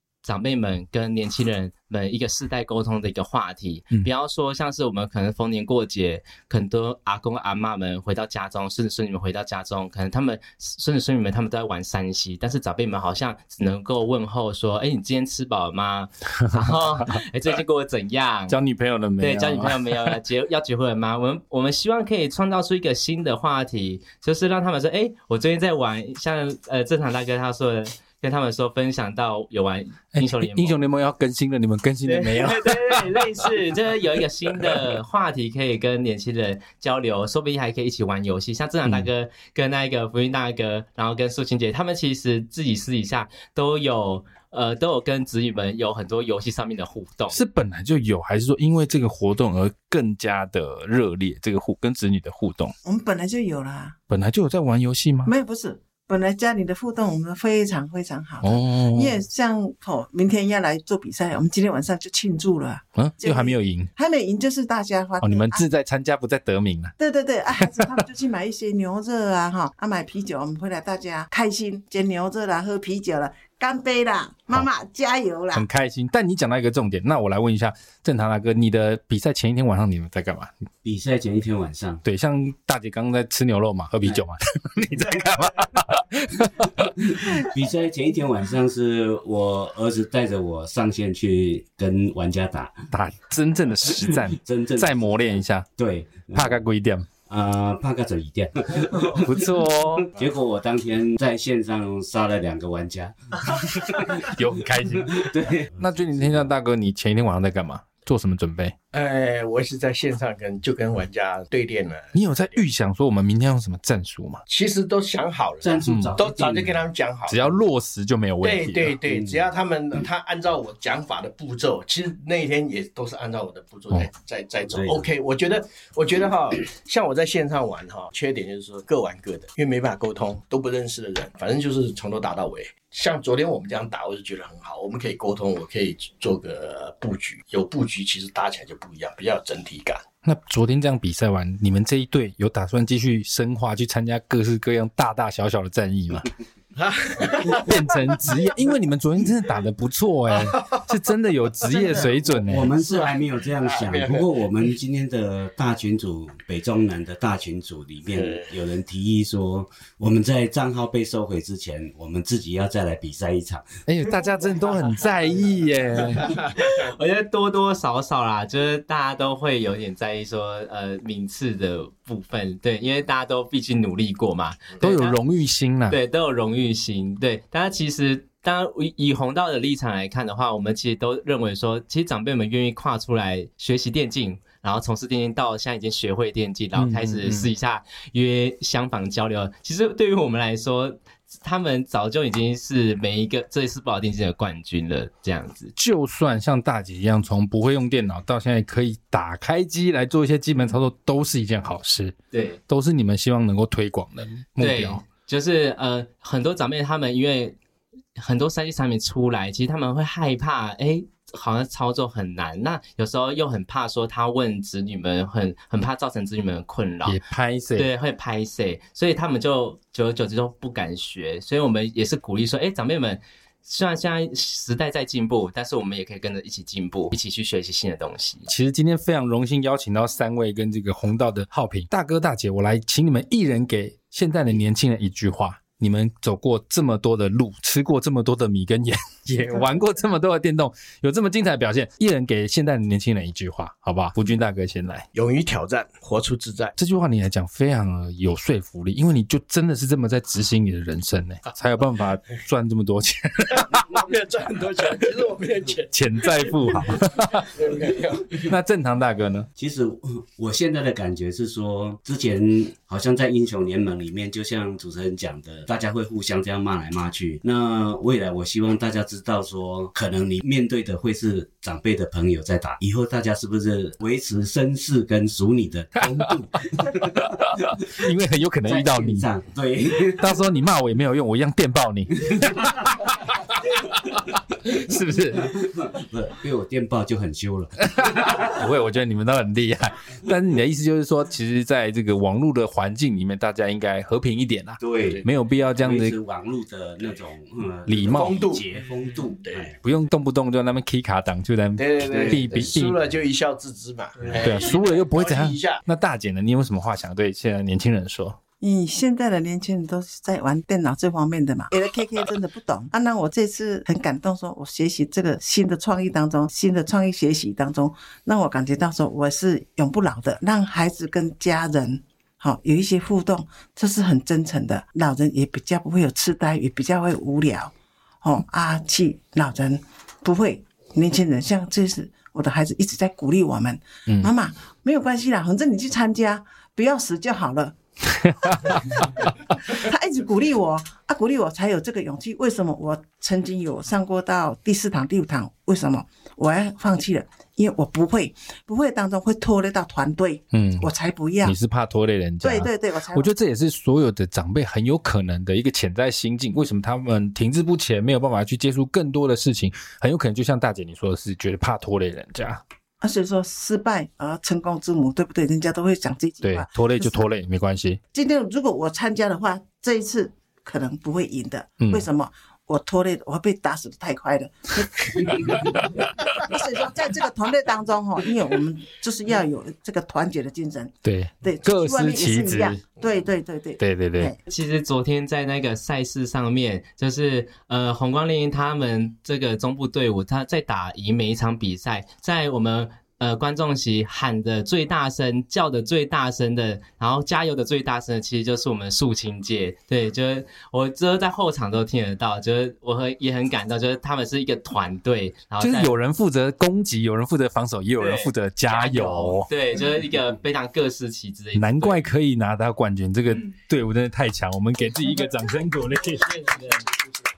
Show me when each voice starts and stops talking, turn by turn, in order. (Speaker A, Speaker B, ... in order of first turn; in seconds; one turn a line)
Speaker A: 0.2-18.6
Speaker B: 18.5-20.2
Speaker A: 19.2-30.8
Speaker B: 30.1-33.1
Speaker A: 32.0-47.4
Speaker B: 47.3-52.7
Speaker C: 52.8-54.0
Speaker B: 54.1-55.3
Speaker C: 55.2-65.6
Speaker B: 58.4-59.2
Speaker B: 63.0-63.9
Speaker B: 65.2-66.9
Speaker C: 67.0-75.7
Speaker B: 75.5-80.5
Speaker D: 80.8-82.0
Speaker B: 82.0-87.5
Speaker D: 87.0-92.9
Speaker B: 92.9-95.7
Speaker D: 93.8-96.6
Speaker B: 96.3-97.1
Speaker D: 97.3-99.3
Speaker B: 99.1-100.1
Speaker D: 100.1-104.3
Speaker B: 103.9-108.7
Speaker D: 105.0-106.5
Speaker E: 108.9-112.2
Speaker B: 112.1-114.4
Speaker E: 114.5-117.6
Speaker D: 115.6-116.8
Speaker B: 115.9-116.1
Speaker B: 117.3-119.0
Speaker E: 118.4-140.0
Speaker D: 119.1-119.4
Speaker D: 124.7-125.1
Speaker B: 140.2-146.3
Speaker E: 146.8-148.2
Speaker B: 147.5-152.7
Speaker E: 150.3-150.8
Speaker E: 151.7-152.1
Speaker D: 152.4-163.8
Speaker E: 152.8-154.3
Speaker E: 158.2-158.5
Speaker B: 163.8-166.3
Speaker E: 166.2-166.9
Speaker A: 166.6-175.2
Speaker B: 174.8-176.0
Speaker A: 175.9-195.7
Speaker B: 186.8-187.5
Speaker B: 195.8-202.1
Speaker A: 202.3-202.6
Speaker B: 202.7-205.0
Speaker A: 204.6-207.6
Speaker A: 208.2-217.2
Speaker B: 217.0-217.9
Speaker A: 217.8-228.5
Speaker B: 228.5-245.1
Speaker E: 245.1-246.7
Speaker B: 246.8-253.7
Speaker E: 253.5-258.4
Speaker B: 255.9-257.5
Speaker B: 258.4-259.5
Speaker D: 259.6-278.0
Speaker B: 277.9-279.3
Speaker D: 278.6-280.3
Speaker B: 280.2-285.5
Speaker D: 282.3-282.6
Speaker D: 285.4-288.4
Speaker B: 288.0-296.2
Speaker D: 294.8-295.2
Speaker D: 295.8-299.8
Speaker B: 297.9-298.4
Speaker E: 298.1-298.6
Speaker E: 299.4-299.7
Speaker B: 299.8-302.9
Speaker E: 301.8-305.8
Speaker D: 302.0-302.8
Speaker B: 304.4-308.4
Speaker C: 308.6-337.8
Speaker C: 338.8-339.1
Speaker C: 339.7-351.6
Speaker B: 350.5-350.9
Speaker B: 351.4-362.6
Speaker C: 352.4-353.3
Speaker C: 363.0-367.3
Speaker B: 366.4-368.0
Speaker C: 368.1-384.4
Speaker B: 375.4-375.8
Speaker B: 381.0-382.8
Speaker B: 383.8-384.3
Speaker A: 384.5-405.9
Speaker B: 405.6-409.5
Speaker A: 408.0-412.1
Speaker B: 411.6-416.4
Speaker A: 416.4-416.9